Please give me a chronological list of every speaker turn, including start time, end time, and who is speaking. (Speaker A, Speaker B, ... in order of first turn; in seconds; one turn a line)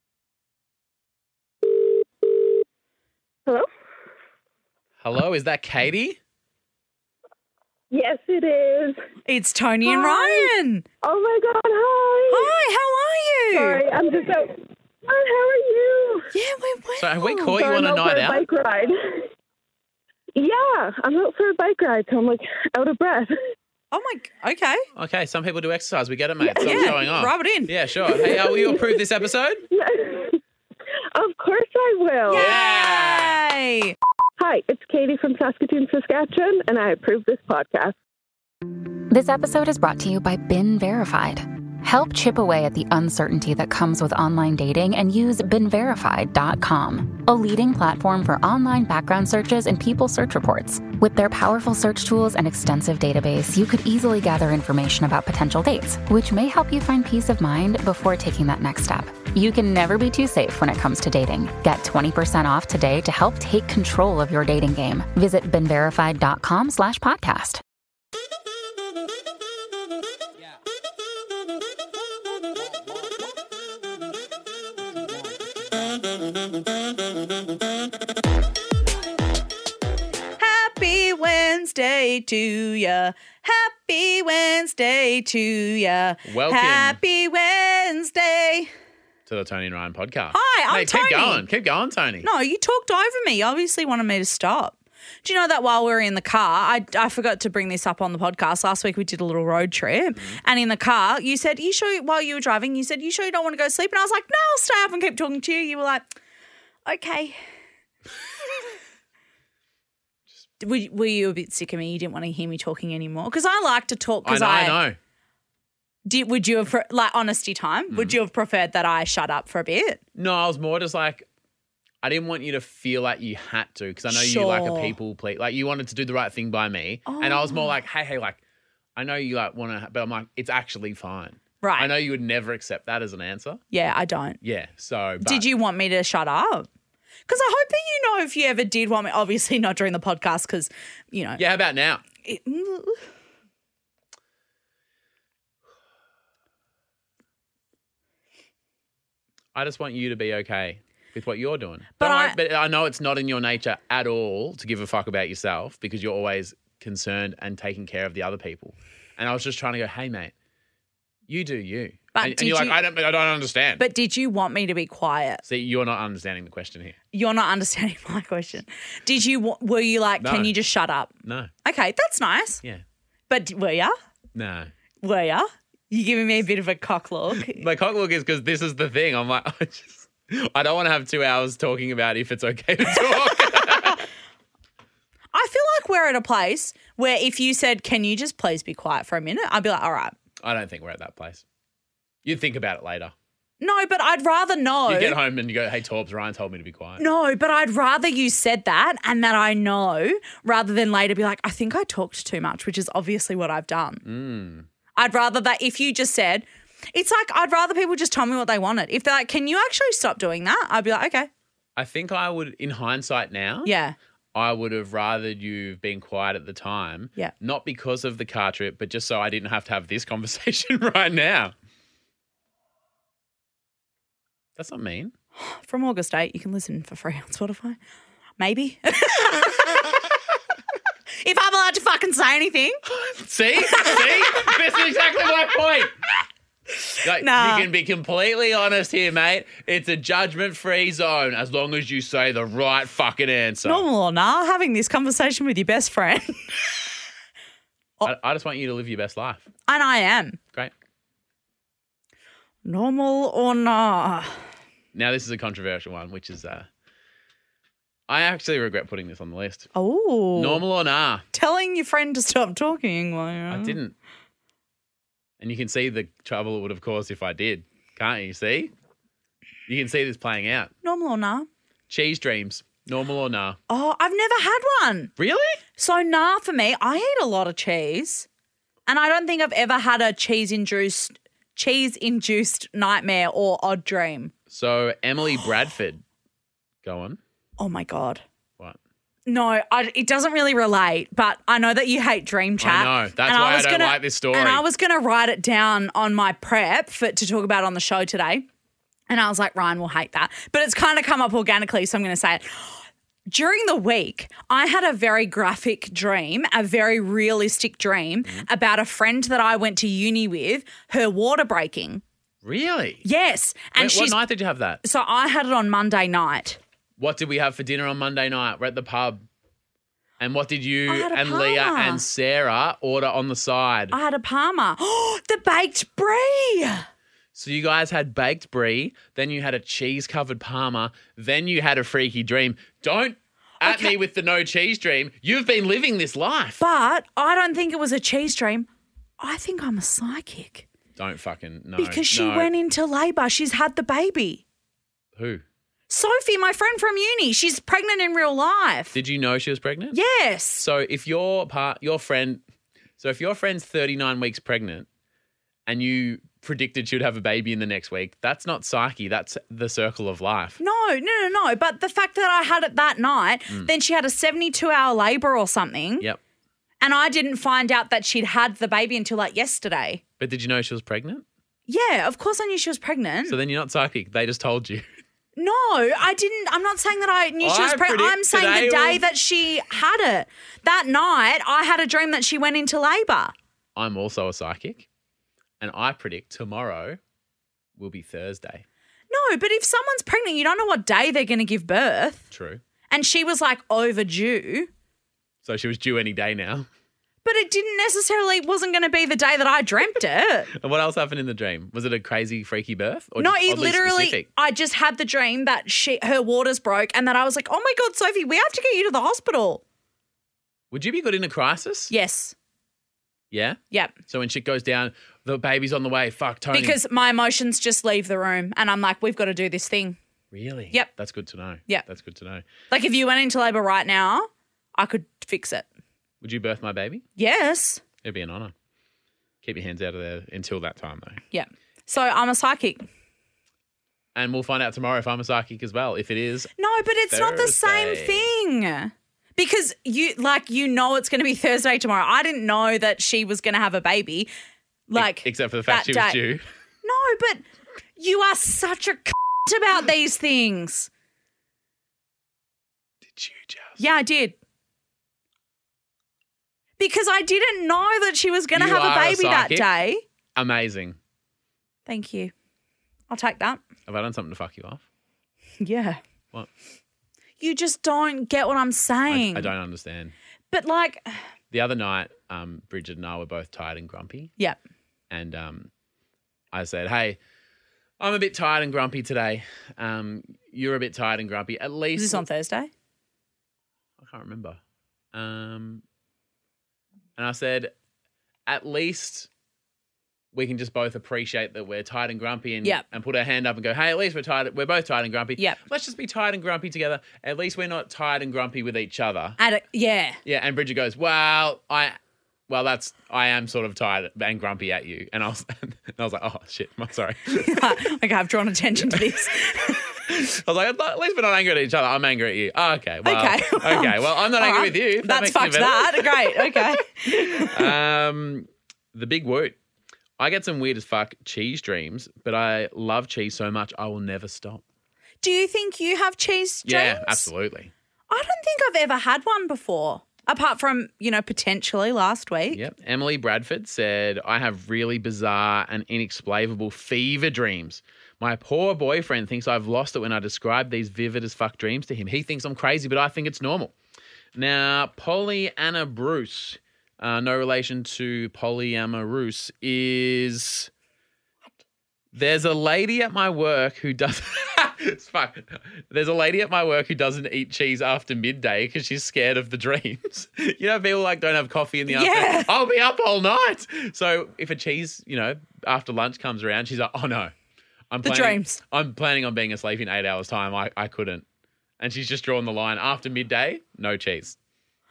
Speaker A: 1.8-2.4
Speaker B: 5.0-6.2
Speaker A: 7.9-9.0
Speaker C: 9.2-10.8
Speaker A: 9.8-10.5
Speaker A: 11.0-12.5
Speaker C: 12.3-13.8
Speaker A: 13.5-16.3
Speaker C: 16.3-17.6
Speaker B: 17.0-18.4
Speaker A: 17.5-19.3
Speaker A: 20.4-23.3
Speaker C: 23.9-24.8
Speaker B: 24.9-29.6
Speaker A: 26.5-26.9
Speaker C: 26.6-27.7
Speaker A: 28.1-29.0
Speaker A: 29.7-30.4
Speaker A: 31.1-32.5
Speaker C: 32.3-34.0
Speaker B: 32.3-33.4
Speaker A: 34.4-37.9
Speaker D: 39.1-67.6
Speaker C: 80.4-88.7
Speaker B: 86.2-87.0
Speaker B: 89.3-92.3
Speaker C: 90.3-91.4
Speaker C: 92.2-106.1
Speaker B: 100.1-100.4
Speaker C: 106.8-107.4
Speaker C: 110.6-114.8
Speaker B: 114.2-115.0
Speaker C: 116.0-120.0
Speaker B: 117.9-118.2
Speaker B: 120.1-121.2
Speaker B: 122.0-128.4
Speaker C: 124.1-125.0
Speaker C: 127.0-127.8
Speaker B: 128.9-133.6
Speaker C: 131.6-131.9
Speaker C: 133.7-134.4
Speaker B: 134.4-135.5
Speaker C: 135.2-136.7
Speaker C: 137.3-141.4
Speaker B: 141.4-142.0
Speaker C: 142.2-143.0
Speaker B: 149.5-160.3
Speaker C: 152.0-152.4
Speaker B: 161.3-163.8
Speaker C: 162.1-162.8
Speaker C: 163.8-165.4
Speaker B: 165.4-166.9
Speaker C: 167.1-171.1
Speaker B: 170.2-170.5
Speaker B: 171.2-171.5
Speaker C: 171.6-172.6
Speaker C: 173.3-173.9
Speaker B: 174.3-174.7
Speaker C: 175.0-177.7
Speaker B: 177.3-184.1
Speaker C: 185.3-190.1
Speaker B: 190.4-191.4
Speaker B: 192.2-193.1
Speaker C: 193.6-195.2
Speaker B: 194.9-197.0
Speaker C: 197.0-204.0
Speaker B: 204.0-204.7
Speaker C: 204.9-211.3
Speaker B: 211.8-213.7
Speaker C: 213.6-213.9
Speaker B: 214.3-221.5
Speaker B: 224.6-225.1
Speaker C: 225.3-227.8
Speaker C: 228.4-230.0
Speaker C: 231.2-232.8
Speaker B: 232.8-235.9
Speaker C: 233.7-234.6
Speaker C: 236.8-237.7
Speaker B: 237.0-243.8
Speaker C: 243.6-246.8
Speaker B: 248.0-249.4
Speaker C: 249.7-250.4
Speaker C: 252.6-254.4
Speaker B: 254.9-256.6
Speaker B: 258.1-259.7
Speaker C: 259.7-260.6
Speaker B: 260.4-261.2
Speaker C: 261.3-263.8
Speaker B: 263.5-263.9
Speaker B: 265.4-268.7
Speaker B: 269.7-270.7
Speaker C: 270.8-271.5
Speaker B: 271.9-273.6
Speaker C: 273.7-275.1
Speaker B: 275.2-275.6
Speaker C: 275.8-278.3
Speaker C: 278.9-284.3
Speaker B: 284.5-286.0
Speaker B: 286.8-287.2
Speaker C: 287.6-288.2
Speaker C: 289.3-298.4
Speaker B: 292.6-294.6
Speaker C: 299.1-312.0
Speaker B: 312.4-313.0
Speaker C: 313.0-314.2
Speaker B: 313.8-314.8
Speaker C: 314.8-316.6
Speaker B: 317.0-319.2
Speaker B: 320.2-323.9
Speaker C: 320.9-322.0
Speaker C: 323.9-326.9
Speaker B: 327.3-336.6
Speaker C: 333.6-333.9
Speaker C: 336.6-338.7
Speaker C: 339.2-340.6
Speaker B: 340.9-342.5
Speaker C: 341.8-344.4
Speaker B: 345.1-345.4
Speaker C: 345.9-348.9
Speaker B: 348.9-350.0
Speaker C: 349.9-350.6
Speaker B: 350.6-352.4
Speaker B: 353.0-354.9
Speaker B: 355.7-360.6
Speaker C: 360.6-366.1
Speaker C: 366.8-370.0
Speaker B: 370.2-371.2
Speaker C: 371.7-373.4
Speaker B: 373.3-374.8
Speaker C: 375.4-383.3
Speaker B: 377.4-379.0
Speaker B: 383.8-384.9
Speaker B: 385.6-387.0
Speaker B: 387.8-388.6
Speaker C: 389.1-392.3
Speaker B: 392.3-392.6
Speaker C: 392.9-394.7
Speaker B: 395.4-396.7
Speaker C: 397.2-400.5
Speaker B: 400.5-404.2
Speaker C: 403.2-409.6
Speaker B: 410.7-411.9
Speaker C: 411.9-412.3
Speaker B: 413.3-416.8
Speaker C: 416.5-420.0
Speaker B: 420.3-422.4
Speaker C: 422.7-425.6
Speaker B: 426.2-427.0
Speaker C: 427.2-427.8
Speaker B: 428.0-428.5
Speaker B: 429.4-431.2
Speaker C: 431.3-432.9
Speaker B: 434.1-436.5
Speaker C: 436.6-444.3
Speaker B: 437.1-438.3
Speaker C: 444.9-446.2
Speaker B: 444.9-446.4
Speaker C: 446.8-447.4
Speaker C: 448.0-450.9
Speaker B: 453.1-453.8
Speaker C: 453.8-454.4
Speaker C: 456.8-460.0
Speaker B: 458.5-459.6
Speaker B: 460.3-461.0
Speaker C: 461.9-462.3
Speaker C: 463.1-463.6
Speaker B: 463.9-464.8
Speaker C: 465.6-466.0
Speaker C: 467.4-469.5
Speaker B: 469.1-470.1
Speaker C: 470.5-471.2
Speaker B: 471.5-474.3
Speaker B: 475.1-475.7
Speaker B: 476.5-477.2
Speaker B: 478.0-482.2
Speaker C: 481.9-482.7
Speaker B: 484.0-484.6
Speaker B: 485.1-485.8
Speaker B: 487.2-487.7
Speaker B: 488.5-489.3
Speaker B: 490.3-499.4
Speaker C: 499.4-500.2
Speaker B: 500.2-501.9
Speaker B: 502.5-507.8
Speaker C: 507.4-509.8
Speaker B: 508.9-519.5
Speaker C: 513.0-517.7
Speaker B: 520.2-524.6
Speaker C: 525.2-527.3
Speaker B: 526.6-527.7
Speaker C: 528.1-532.6
Speaker B: 532.5-543.7
Speaker B: 544.3-550.7
Speaker B: 552.1-567.3
Speaker C: 561.9-562.5
Speaker B: 567.9-571.2
Speaker C: 568.0-568.6
Speaker B: 571.8-574.4